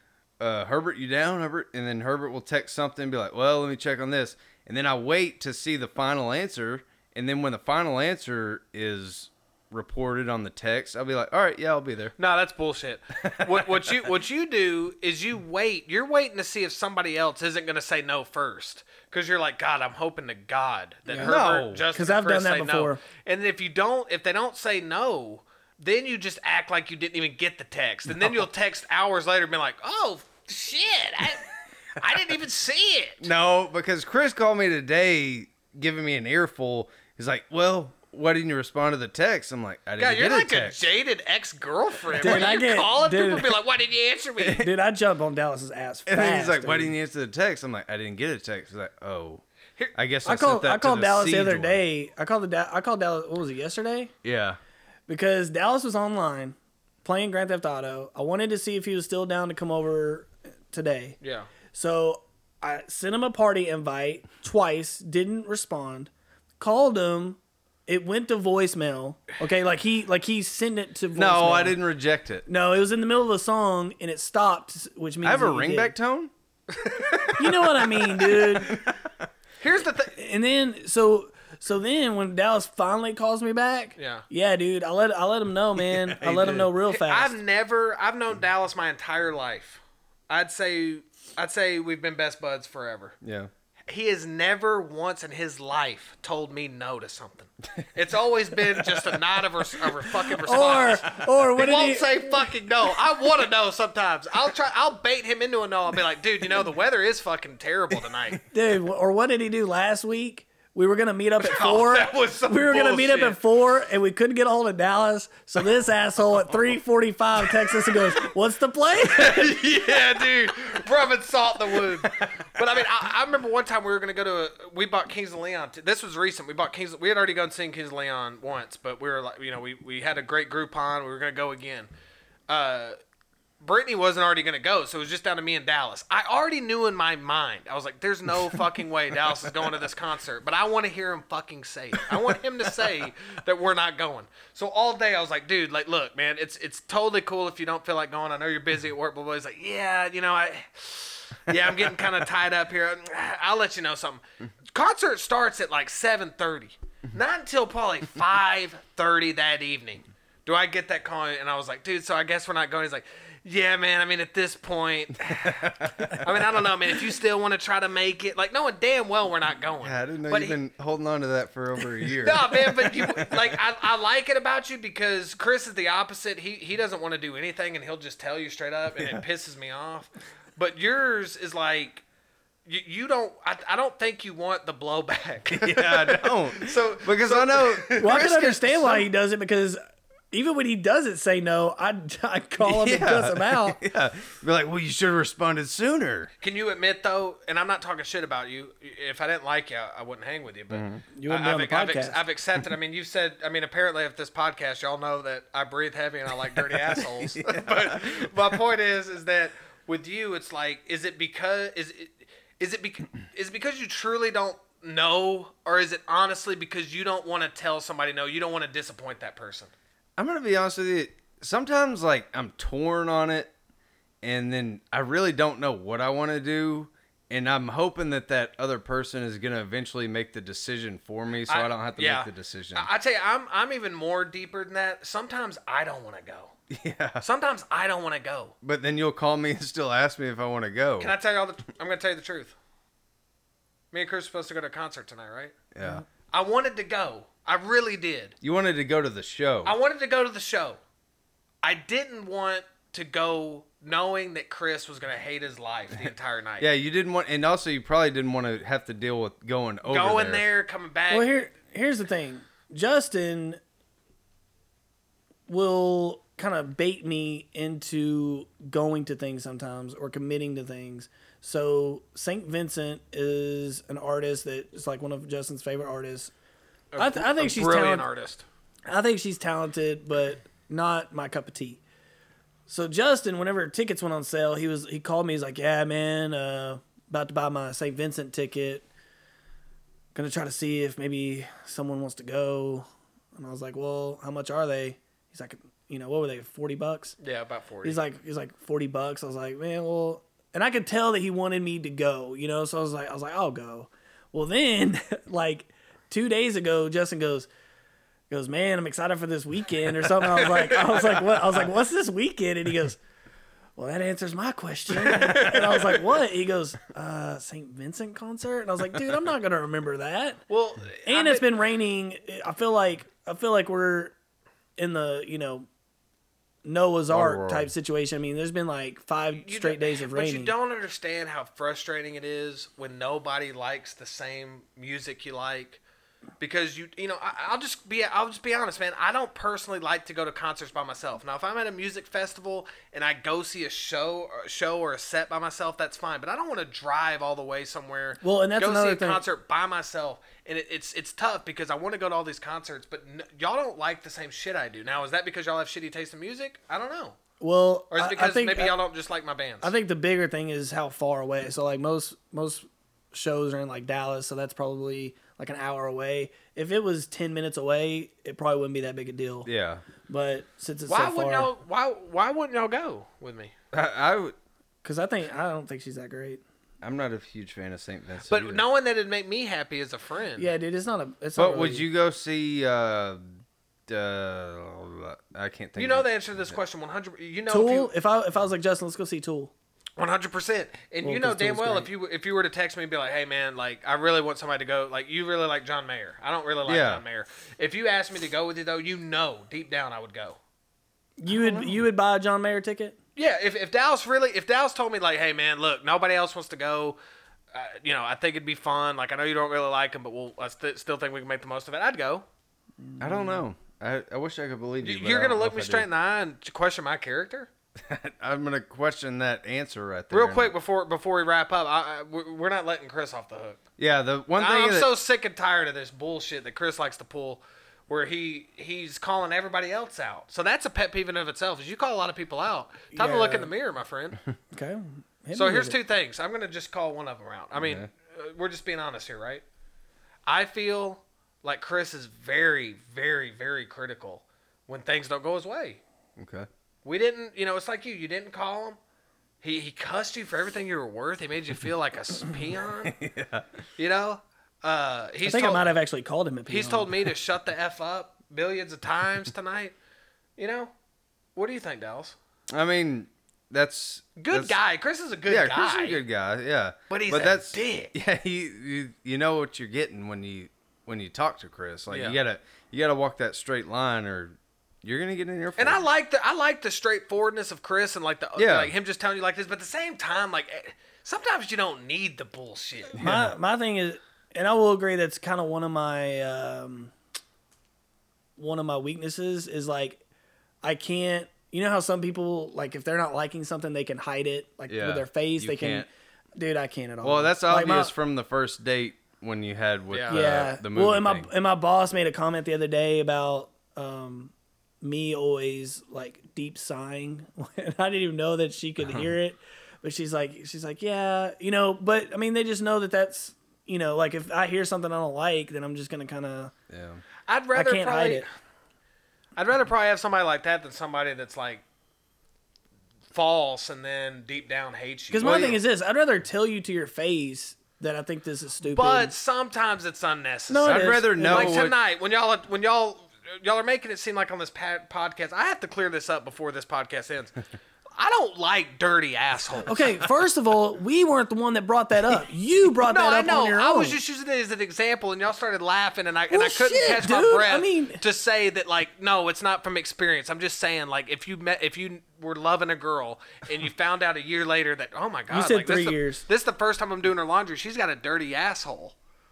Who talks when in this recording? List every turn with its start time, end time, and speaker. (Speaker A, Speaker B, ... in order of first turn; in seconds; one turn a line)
Speaker A: 0.4-12.2
Speaker B: 12.2-33.3
Speaker A: 13.2-14.1
Speaker C: 21.1-21.4
Speaker A: 21.2-21.9
Speaker C: 21.9-23.0
Speaker A: 28.2-28.5
Speaker A: 33.2-40.8
Speaker B: 40.0-44.7
Speaker A: 42.2-42.5
Speaker C: 42.2-43.5
Speaker C: 44.6-46.9
Speaker A: 46.1-49.4
Speaker A: 50.0-51.8
Speaker C: 50.2-54.1
Speaker A: 54.2-54.6
Speaker C: 55.1-61.2
Speaker B: 61.2-61.5
Speaker C: 61.7-71.8
Speaker A: 71.2-72.5
Speaker C: 72.5-75.9
Speaker A: 75.2-76.3
Speaker B: 76.7-78.4
Speaker C: 77.4-78.8
Speaker A: 78.0-79.2
Speaker B: 79.6-80.2
Speaker C: 80.2-87.3
Speaker B: 84.0-84.2
Speaker A: 85.8-86.7
Speaker B: 86.9-93.2
Speaker A: 93.2-93.5
Speaker B: 93.9-108.4
Speaker A: 98.8-99.6
Speaker C: 100.5-102.5
Speaker C: 108.5-119.5
Speaker B: 111.4-113.4
Speaker B: 119.1-131.9
Speaker A: 122.0-122.3
Speaker B: 132.5-133.0
Speaker B: 133.6-154.2
Speaker A: 151.8-152.1
Speaker B: 154.7-170.6
Speaker A: 165.3-167.0
Speaker A: 169.8-173.6
Speaker B: 172.1-182.0
Speaker A: 179.0-179.2
Speaker B: 182.7-189.1
Speaker A: 185.5-188.0
Speaker C: 188.0-189.8
Speaker C: 190.3-193.8
Speaker A: 192.6-196.3
Speaker B: 196.4-219.7
Speaker A: 200.7-201.0
Speaker C: 201.1-202.2
Speaker A: 206.7-208.6
Speaker A: 220.2-223.5
Speaker A: 224.2-232.9
Speaker B: 231.5-236.5
Speaker A: 236.7-237.2
Speaker B: 237.2-238.6
Speaker A: 238.6-241.1
Speaker B: 241.0-242.6
Speaker B: 243.9-245.6
Speaker A: 245.7-246.0
Speaker B: 246.3-248.4
Speaker A: 248.4-249.8
Speaker B: 249.6-250.8
Speaker B: 251.6-256.7
Speaker A: 256.6-260.4
Speaker B: 259.9-261.3
Speaker C: 261.1-263.6
Speaker C: 265.5-276.3
Speaker B: 276.9-278.4
Speaker C: 277.0-278.1
Speaker C: 278.9-281.8
Speaker C: 282.7-288.9
Speaker C: 290.1-297.2
Speaker B: 297.2-298.0
Speaker C: 297.8-307.5
Speaker C: 308.3-313.0
Speaker A: 310.1-311.1
Speaker C: 313.8-320.4
Speaker A: 315.1-315.8
Speaker B: 320.5-321.5
Speaker C: 321.1-324.1
Speaker C: 324.8-325.7
Speaker C: 326.6-330.5
Speaker A: 327.1-327.7
Speaker B: 329.4-335.8
Speaker B: 336.4-357.2
Speaker C: 348.2-349.2
Speaker C: 357.4-358.8
Speaker B: 357.9-359.7
Speaker C: 359.6-369.5
Speaker A: 369.4-369.8
Speaker C: 370.1-371.5
Speaker B: 370.9-373.5
Speaker A: 373.7-374.4
Speaker C: 374.8-376.4
Speaker A: 376.8-378.6
Speaker B: 378.3-380.5
Speaker C: 380.4-381.9
Speaker A: 381.4-386.6
Speaker B: 385.8-387.9
Speaker C: 387.5-389.5
Speaker B: 390.0-400.4
Speaker C: 391.0-391.9
Speaker A: 396.7-397.0
Speaker C: 401.2-403.0
Speaker A: 401.3-401.8
Speaker B: 403.2-407.0
Speaker B: 407.5-412.3
Speaker C: 412.9-413.4
Speaker A: 413.0-415.9
Speaker B: 414.8-417.5
Speaker A: 417.8-420.5
Speaker B: 420.1-423.6
Speaker A: 423.8-424.9
Speaker B: 424.4-434.2
Speaker C: 432.9-433.5
Speaker C: 434.5-435.8
Speaker B: 435.3-439.4
Speaker A: 437.5-437.9
Speaker B: 440.3-445.8
Speaker A: 446.2-446.5
Speaker B: 446.9-448.8
Speaker B: 449.4-452.9
Speaker A: 452.8-453.5
Speaker B: 453.8-455.7
Speaker C: 455.2-457.0
Speaker B: 456.5-459.8
Speaker B: 460.4-460.7
Speaker B: 461.4-462.2
Speaker A: 462.5-464.6
Speaker B: 464.2-466.0
Speaker A: 465.3-475.8
Speaker B: 466.9-467.9
Speaker B: 471.9-472.2
Speaker B: 475.6-483.0
Speaker A: 478.4-478.7
Speaker A: 483.0-483.3
Speaker C: 483.0-486.9
Speaker C: 488.4-490.0
Speaker C: 490.6-497.9
Speaker A: 494.7-495.9
Speaker A: 497.0-501.3
Speaker B: 499.9-500.2
Speaker C: 500.1-516.5
Speaker A: 508.8-509.1
Speaker A: 516.7-517.0
Speaker B: 517.3-518.3
Speaker C: 517.5-518.3
Speaker B: 519.4-521.6
Speaker B: 523.1-525.6
Speaker C: 525.1-529.1
Speaker A: 525.2-525.6
Speaker B: 528.6-537.4
Speaker C: 530.5-531.6
Speaker A: 530.6-531.7
Speaker B: 538.0-540.0
Speaker C: 539.6-544.0
Speaker B: 542.9-559.0
Speaker C: 546.3-548.0
Speaker C: 555.3-556.3